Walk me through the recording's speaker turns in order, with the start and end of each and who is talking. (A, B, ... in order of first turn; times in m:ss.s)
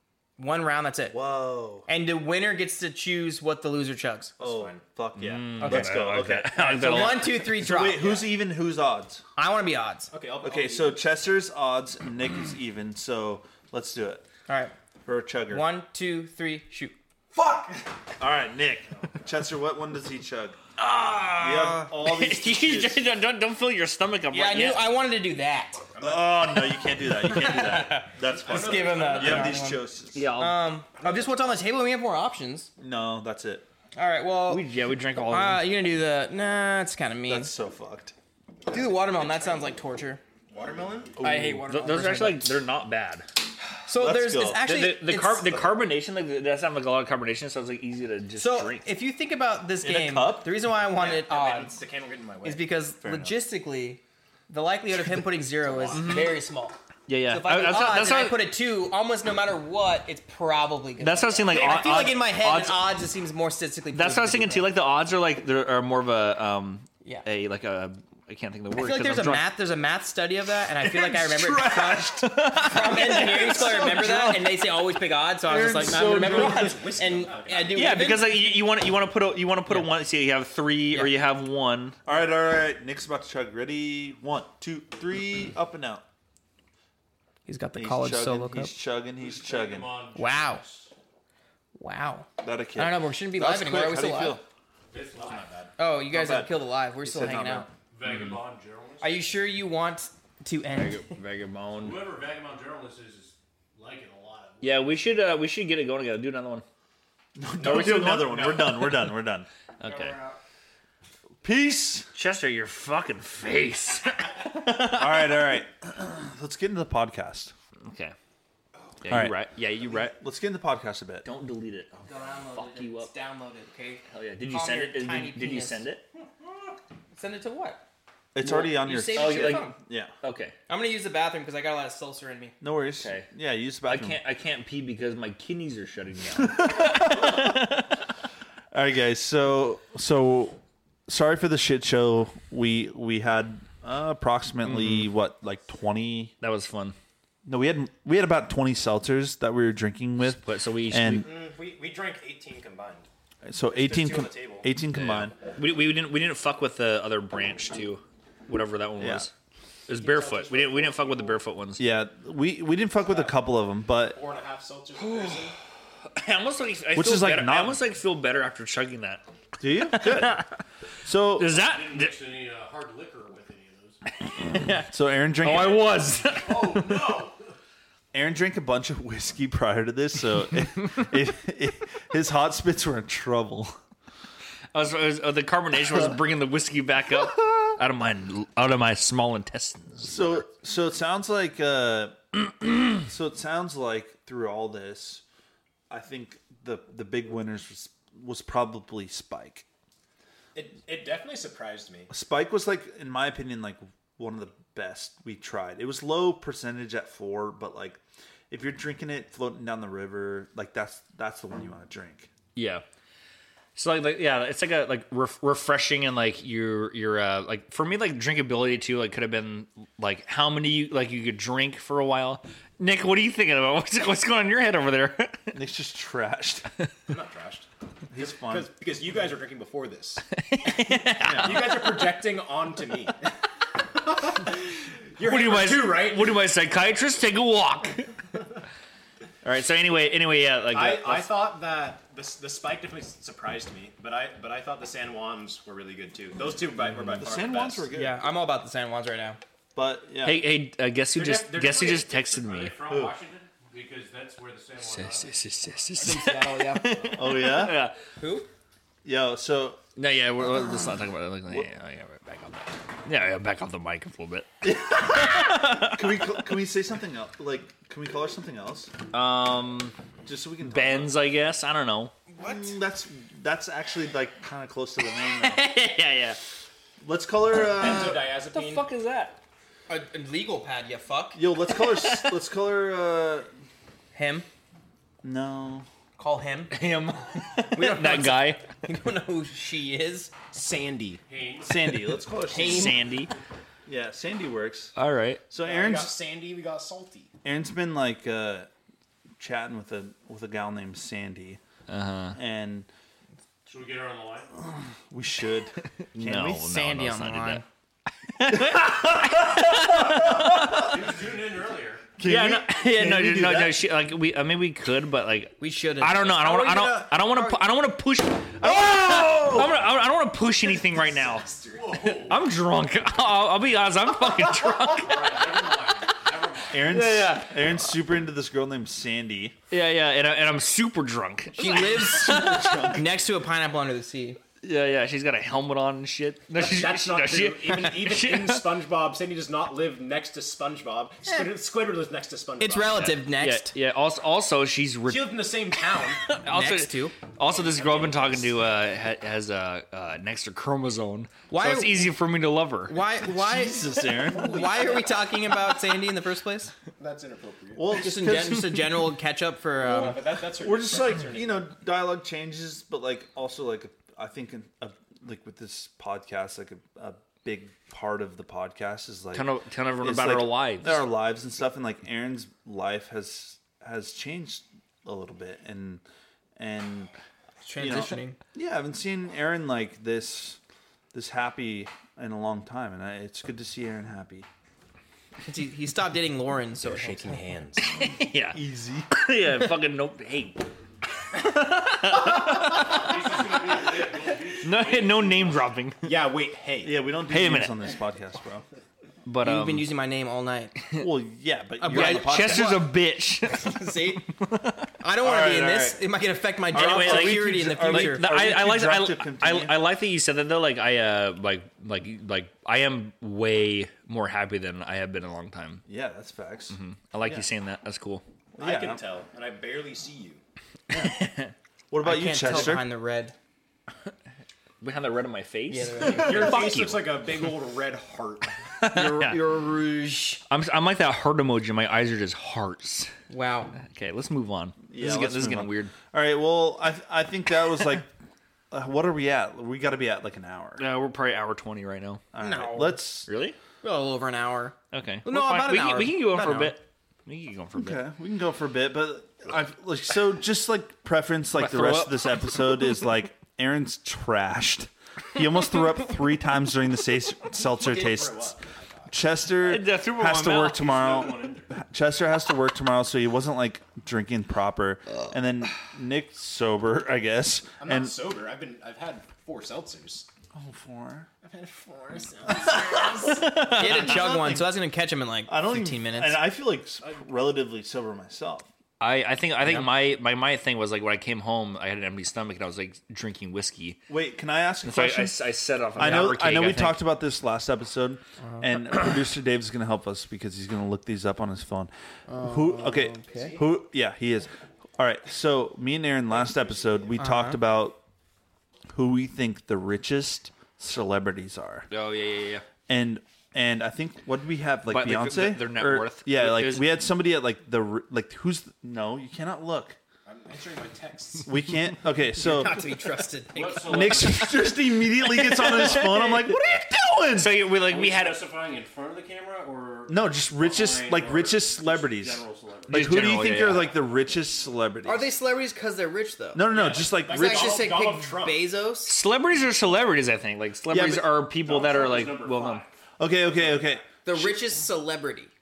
0:00.4-0:01.2 A
0:01.1-0:01.8 B
0:01.8-0:04.3 A
0:04.4-0:04.8 C
0:04.4-0:09.2 B
0:05.2-0:07.4 D
0:05.6-0:08.2 A
0:09.4-0:10.1 A
0:10.1-0:11.0 C
0:10.4-0:14.2 B
0:14.5-0:14.7 A
0:15.0-0:15.6 B
0:15.5-0:17.0 A
0:17.4-0:20.6 B
0:17.4-0:17.6 C
0:20.8-0:24.9 D
0:21.4-0:23.1 B
0:24.3-0:25.8 A
0:25.9-0:26.6 C
0:26.0-0:30.3 B
0:27.1-0:32.7 A
0:28.2-0:29.6 C
0:30.1-0:30.6 D
0:31.0-0:31.3 C
0:32.8-0:33.7 B
0:33.9-0:34.6 A
0:34.5-0:35.6 D
0:35.3-0:37.5 A
0:37.3-0:38.1 B
0:38.7-0:40.2 A
0:38.7-0:39.7 C
0:40.5-0:41.2 C
0:41.2-0:41.7 B
0:41.2-0:42.5 A
0:41.5-0:43.2 D
0:43.9-0:45.7 A
0:43.9-0:44.6 B
0:44.6-0:48.8 D
0:48.4-0:51.8 A
0:49.8-0:50.5 B
0:50.9-0:52.6 C
0:52.4-0:56.8 A
0:53.0-0:53.4 B
0:55.6-0:56.2 C
0:55.9-0:56.4 D
0:57.1-0:58.4 D
0:57.3-1:04.7 A
1:01.0-1:02.8 D
1:03.9-1:09.4 D
1:08.8-1:18.5 A
1:10.9-1:12.6 B
1:11.4-1:14.4 D
1:13.1-1:13.6 C
1:13.2-1:14.3 B
1:15.4-1:16.8 B
1:15.8-1:17.8 C
1:17.7-1:22.0 D
1:22.0-1:26.0 B
1:27.5-1:28.7 A
1:27.7-1:30.0 B
1:29.2-1:30.9 E
1:30.1-1:30.6 A
1:31.8-1:34.4 A
1:32.4-1:34.4 B
1:34.9-1:35.7 E
1:35.1-1:35.5 C
1:35.8-1:37.7 A
1:36.1-1:37.7 B
1:37.9-1:39.2 E
1:39.0-1:41.1 A
1:40.7-1:42.0 D
1:41.7-1:45.1 E
1:44.6-1:46.6 D
1:47.4-1:49.5 B
1:47.6-1:48.7 C
1:47.8-1:48.3 D
1:49.8-1:50.2 D
1:49.8-1:50.4 A
1:51.4-1:52.1 B
1:52.1-1:55.6 D
1:54.9-1:57.5 B
1:57.8-1:58.1 D
1:59.0-2:00.2 D
1:59.1-2:01.2 B
2:01.2-2:03.1 D
2:02.0-2:05.8 A
2:04.1-2:06.0 D
2:07.2-2:07.8 A
2:08.3-2:10.1 B
2:08.4-2:09.8 A
2:09.1-2:10.5 D
2:10.7-2:12.5 A
2:12.6-2:14.2 B
2:13.0-2:13.3 D
2:13.8-2:17.9 D
2:16.4-2:17.7 B
2:18.7-2:26.3 B
2:24.6-2:25.1 D
2:26.4-2:27.0 D
2:27.4-2:31.2 B
2:30.3-2:31.2 D
2:31.1-2:33.1 C
2:33.4-2:35.3 B
2:33.7-2:34.7 C
2:34.9-2:39.3 D
2:39.0-2:39.3 B
2:39.9-2:41.8 D
2:39.9-2:41.4 C
2:41.8-2:44.2 B
2:43.0-2:45.6 C
2:45.0-2:45.6 D
2:46.1-2:49.2 D
2:46.9-2:47.8 B
2:49.6-2:50.4 B
2:49.9-2:50.5 D
2:51.0-2:51.5 B
2:51.4-2:52.1 D
2:51.5-2:54.0 E
2:54.3-2:54.8 D
2:54.5-2:56.0 B
2:55.4-2:57.0 D
2:56.2-2:57.5 E
2:58.1-3:03.8 B
3:04.7-3:10.4 D
3:10.0-3:15.2 B
3:15.9-3:19.6 B
3:20.5-3:22.1 C
3:22.1-3:28.0 B
3:28.5-3:32.3 B
3:32.5-3:32.8 D
3:33.8-3:45.5 D
3:45.5-3:46.7 B
3:47.1-3:47.7 C
3:48.1-3:48.7 B
3:48.2-3:50.2 C
3:50.5-3:52.2 D
3:51.2-3:51.7 B
3:51.4-3:53.3 C
3:53.9-3:56.4 C
3:55.2-3:58.1 D
3:59.4-4:01.3 D
4:00.7-4:07.9 C
4:06.9-4:08.2 B
4:07.9-4:09.4 A
4:09.7-4:10.4 B
4:10.2-4:12.7 D
4:11.1-4:12.5 C
4:12.4-4:15.4 E
4:14.8-4:18.0 D
4:16.0-4:17.2 A
4:17.2-4:17.9 B
4:18.2-4:18.5 A
4:19.0-4:19.8 B
4:20.0-4:24.5 D
4:24.6-4:28.9 B
4:25.1-4:26.0 D
4:29.1-4:30.0 D
4:30.2-4:31.2 B
4:30.6-4:32.1 D
4:32.3-4:32.7 A
4:32.4-4:35.6 B
4:35.4-4:36.4 D
4:37.0-4:38.2 B
4:37.7-4:38.9 C
4:38.5-4:39.4 D
4:39.9-4:41.4 A
4:41.3-4:43.5 B
4:41.7-4:42.4 D
4:44.1-4:44.4 A
4:45.2-4:45.9 B
4:46.2-4:46.8 A
4:46.7-4:48.6 D
4:47.7-4:50.3 A
4:50.5-4:51.2 C
4:51.3-4:51.9 E
4:51.6-4:52.9 B
4:52.5-4:53.0 A
4:52.5-4:53.3 D
4:53.8-4:54.9 B
4:55.0-4:55.4 D
4:55.5-4:56.1 B
4:55.6-4:57.3 C
4:57.4-4:58.7 B
4:59.4-5:01.6 B
5:01.9-5:02.4 D
5:02.3-5:02.9 B
5:03.6-5:04.5 E
5:04.6-5:06.6 B
5:06.1-5:07.6 D
5:06.2-5:07.6 A
5:08.3-5:10.9 D
5:08.5-5:11.0 B
5:10.7-5:12.1 E
5:12.2-5:13.8 B
5:12.2-5:25.4 D
5:15.6-5:17.6 A
5:18.6-5:19.8 B
5:20.6-5:22.2 C
5:21.8-5:22.4 E
5:24.9-5:26.9 E
5:26.7-5:29.6 B
5:26.8-5:27.7 D
5:29.7-5:33.0 D
5:31.6-5:34.4 A
5:32.1-5:33.0 B
5:34.6-5:38.6 D
5:36.6-5:43.2 C
5:42.6-5:43.7 A
5:43.0-5:53.0 D
5:45.0-5:46.2 C
5:46.4-5:47.2 A
5:47.4-5:48.7 C
5:51.5-5:52.1 A
5:52.9-5:56.7 A
5:53.2-5:54.7 B
5:54.2-5:55.3 C
5:57.0-5:57.9 C
5:57.7-5:58.8 B
5:57.9-6:00.2 A
5:59.8-6:01.7 C
6:00.6-6:09.5 B
6:09.3-6:11.0 D
6:10.0-6:16.0 B
6:16.6-6:17.1 B
6:17.6-6:18.4 A
6:17.8-6:20.6 B
6:21.1-6:24.5 B
6:25.4-6:27.4 A
6:26.8-6:28.0 C
6:27.9-6:28.6 D
6:28.5-6:29.1 B
6:29.1-6:30.7 D
6:31.3-6:33.1 D
6:32.8-6:35.7 E
6:34.6-6:36.1 D
6:36.0-6:37.0 C
6:36.8-6:38.6 B
6:37.3-6:37.8 D
6:39.2-6:39.9 D
6:39.4-6:40.8 A
6:41.0-6:42.9 B
6:41.8-6:42.8 A
6:41.9-6:43.9 D
6:43.5-6:44.3 A
6:44.4-6:44.9 D
6:45.0-6:48.3 A
6:45.2-6:46.0 B
6:46.7-6:49.8 B
6:46.7-6:55.8 D
6:55.8-6:56.8 B
6:56.7-6:58.2 D
6:58.6-7:00.4 C
6:58.6-6:59.0 B
7:00.9-7:01.2 B
7:00.9-7:01.5 D
7:01.9-7:02.8 B
7:02.0-7:03.3 A
7:04.8-7:07.3 D
7:05.7-7:06.8 A
7:06.0-7:08.5 C
7:08.8-7:09.4 D
7:08.8-7:10.4 A
7:10.5-7:13.1 D
7:13.3-7:13.7 A
7:13.8-7:15.9 D
7:14.9-7:18.1 B
7:18.7-7:20.8 B
7:20.8-7:22.2 D
7:22.3-7:23.3 B
7:22.4-7:23.0 A
7:23.3-7:23.6 D
7:23.8-7:26.8 A
7:24.9-7:28.0 D
7:27.8-7:38.5 B
7:31.5-7:33.0 D
7:37.6-7:39.2 C
7:39.1-7:48.2 B
7:39.6-7:40.8 D
7:40.7-7:41.7 E
7:47.8-7:50.3 C
7:50.5-7:51.3 B
7:51.4-7:53.6 C
7:53.3-7:54.5 D
7:53.7-7:56.4 A
7:53.8-7:54.7 B
7:55.5-7:58.7 B
7:59.0-8:04.0 D
8:04.1-8:05.4 B
8:04.8-8:07.0 D
8:06.0-8:18.0 B
8:12.3-8:13.6 A
8:13.2-8:13.6 C
8:16.4-8:17.1 C
8:17.2-8:17.6 A
8:18.9-8:21.9 B
8:21.9-8:22.6 D
8:22.9-8:30.0 B
8:24.9-8:26.9 D
8:30.2-8:31.5 C
8:31.4-8:32.8 B
8:32.4-8:34.3 A
8:33.5-8:34.6 E
8:33.9-8:37.5 B
8:35.2-8:36.6 D
8:37.3-8:38.4 D
8:37.8-8:43.4 E
8:40.1-8:45.3 B
8:42.9-8:43.9 D
8:45.0-8:46.7 A
8:46.5-8:47.8 B
8:46.7-8:48.6 C
8:47.2-8:49.2 A
8:49.1-8:52.8 D
8:50.9-8:51.4 B
8:51.6-8:52.9 E
8:53.2-8:54.6 B
8:53.6-8:53.8 E
8:54.2-8:55.5 A